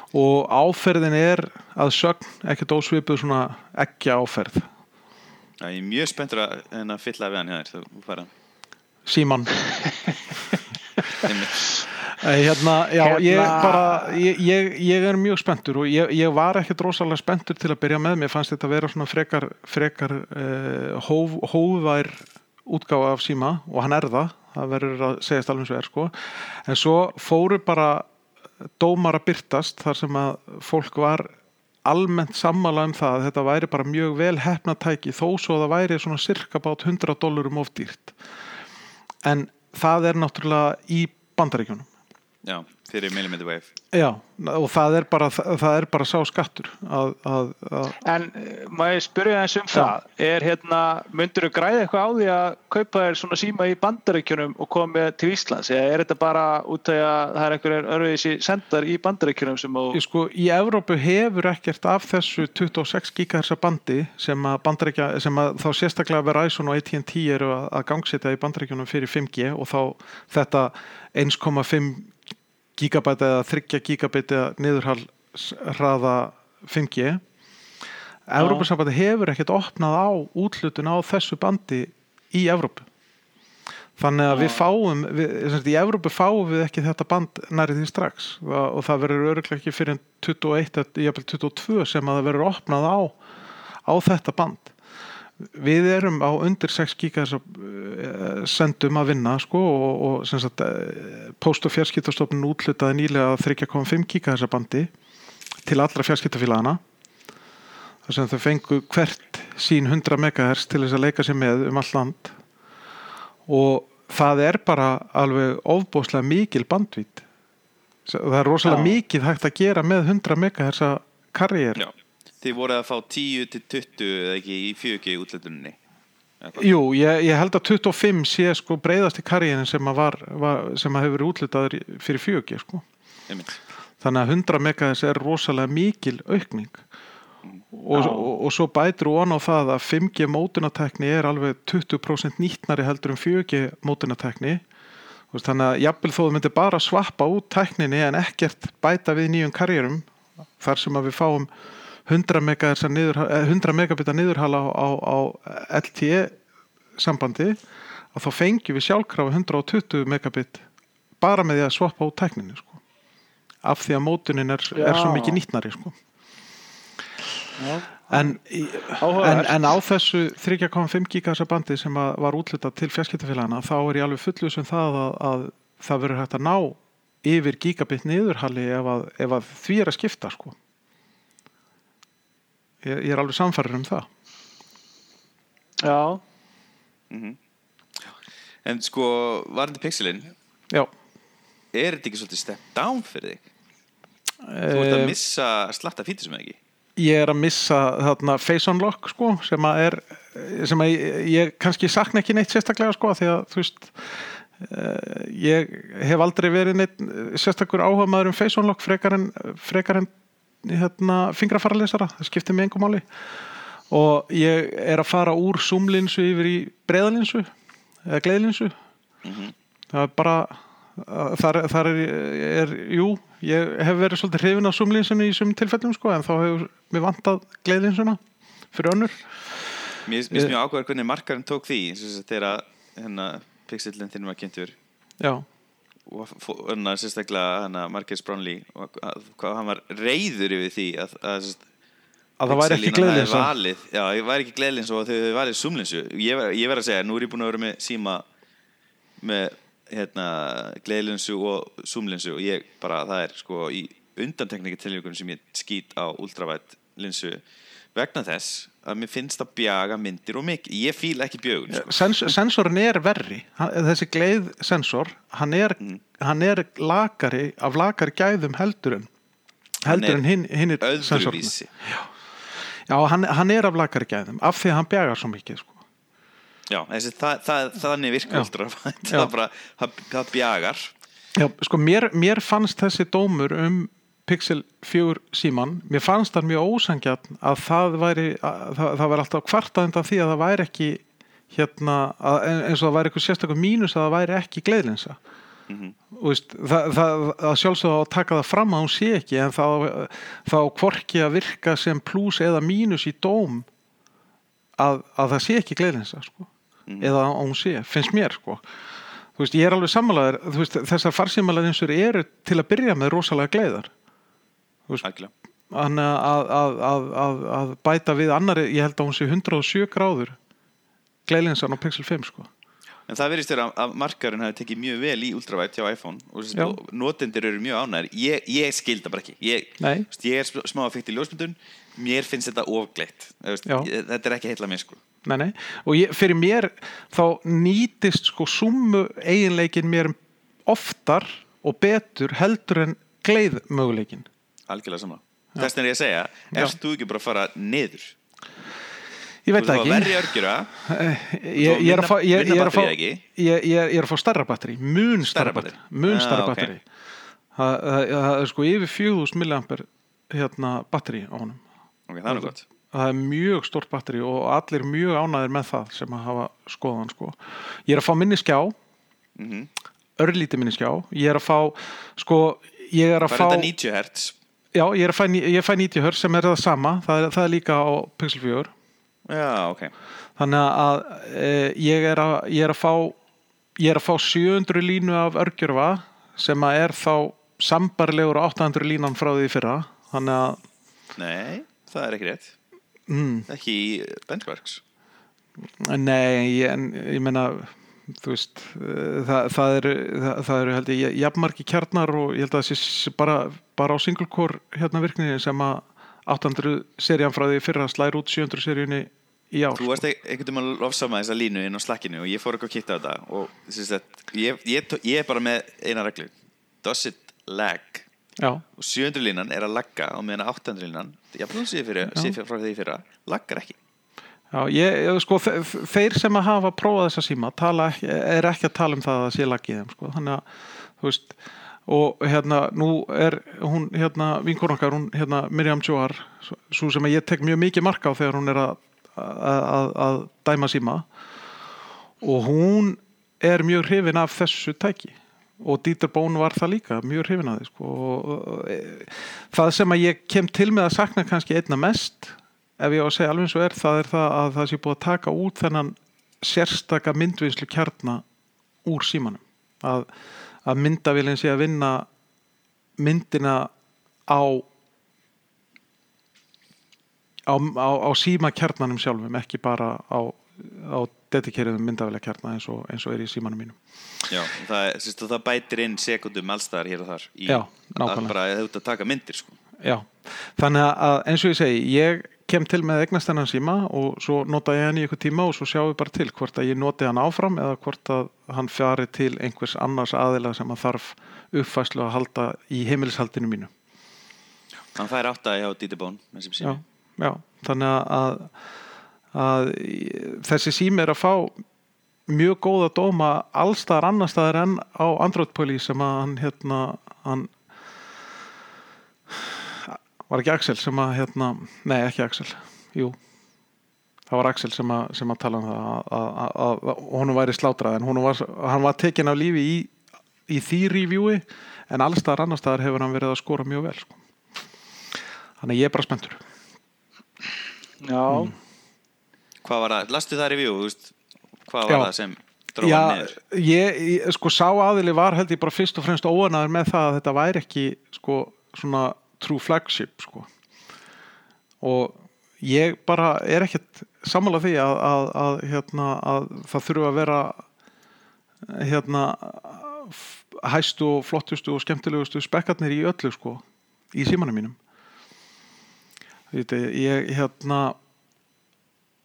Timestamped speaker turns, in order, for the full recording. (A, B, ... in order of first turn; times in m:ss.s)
0:00.1-0:04.7 A
0:05.6-0:08.3 B
0:09.1-0:09.6 A
0:11.2-0:11.7 B
0:12.1-0:28.1 A
0:13.0-0:14.2 C
0:28.8-0:31.3 A
0:31.8-0:38.2 A
0:39.2-0:41.9 A
0:42.4-0:43.7 B
0:43.9-0:48.0 A
0:48.0-1:00.0 C
0:59.9-1:12.2 A
1:12.8-1:17.2 A
1:18.3-1:22.9 A
1:18.4-1:18.7 C
1:24.0-1:33.2 A
1:24.3-1:24.6 C
1:33.9-1:34.7 A
1:35.4-1:44.9 A
1:45.6-1:46.8 A
1:48.1-1:52.4 A
1:53.5-1:57.2 A
1:58.1-2:01.8 A
1:58.6-1:59.0 C
2:01.8-2:05.8 B
2:06.4-2:06.7 B
2:06.6-2:12.8 A
2:13.3-2:13.6 B
2:14.0-2:16.8 A
2:17.7-2:24.6 A
2:17.9-2:18.3 C
2:25.3-2:30.1 A
2:30.6-2:31.5 A
2:32.1-2:36.4 A
2:37.0-2:37.6 A
2:38.1-2:40.7 A
2:41.2-2:42.8 A
2:43.6-2:46.0 A
2:44.7-2:45.4 C
2:47.6-2:48.4 C
2:48.1-3:00.6 A
2:49.0-2:49.7 C
3:02.8-3:04.1 A
3:05.8-3:06.2 C
3:07.1-3:07.4 B
3:08.6-3:10.3 B
3:11.7-3:13.4 B
3:14.4-3:15.2 A
3:14.7-3:16.6 B
3:17.0-3:30.1 A
3:30.6-3:33.1 A
3:33.9-3:37.5 A
3:38.1-3:38.8 A
3:39.2-3:39.5 B
3:39.9-3:48.2 A
3:48.7-3:49.3 A
3:50.0-3:54.8 B
3:55.2-3:55.5 A
3:56.1-4:01.6 B
4:02.4-4:03.5 A
4:02.5-4:08.2 B
4:09.2-4:17.4 B
4:18.0-4:21.9 B
4:21.7-4:29.1 A
4:29.8-4:32.1 A
4:29.9-4:30.2 B
4:30.8-4:31.7 B
4:32.9-4:35.8 A
4:36.7-4:40.9 B
4:41.4-4:55.2 A
4:55.7-4:56.0 B
4:56.1-5:03.7 A
5:04.8-5:08.6 A
5:06.9-5:07.1 B
5:09.4-5:13.9 A
5:15.0-5:15.3 B
5:15.7-5:20.4 A
5:21.3-5:22.5 A
5:23.1-5:35.0 B
5:29.8-5:30.1 A
5:35.2-5:44.3 A
5:44.7-5:48.1 B
5:49.5-5:56.8 A
5:49.6-5:50.7 B
5:51.6-5:53.2 B
5:55.2-5:56.7 B
5:57.6-6:01.6 A
6:02.1-6:02.6 B
6:02.3-6:08.8 A
6:09.4-6:09.7 B
6:10.2-6:13.7 A
6:13.3-6:14.4 B
6:14.7-6:18.7 A
6:19.3-6:19.9 B
6:20.4-6:23.2 A
6:23.8-6:30.6 A
6:31.2-6:32.6 B
6:33.1-6:33.5 A
6:33.5-6:34.8 B
6:35.7-6:50.0 A
6:49.8-6:56.3 B
6:56.8-6:58.1 B
6:58.4-6:58.6 A
6:58.8-7:03.8 B
7:04.5-7:10.5 A
7:11.0-7:21.1 A
7:22.2-7:38.2 A
7:38.8-7:40.1 A
7:40.6-7:42.1 A
7:43.0-7:43.7 A
7:44.3-7:44.7 A
7:47.5-7:53.8 A
7:54.3-7:59.6 B
7:57.5-7:58.3 A
7:59.8-8:13.7 A
8:15.0-8:16.8 B
8:16.6-8:18.5 A
8:19.3-8:21.6 A
8:22.3-8:27.5 A
8:29.3-8:33.2 A
8:34.3-8:39.9 A
8:40.5-8:44.2 A
8:45.6-8:46.4 A
8:48.0-8:48.6 C
8:49.6-8:51.1 B
8:51.7-8:53.4 B
8:52.8-9:00.5 A
9:01.8-9:07.6 A
9:08.6-9:14.8 A
9:16.5-9:18.0 A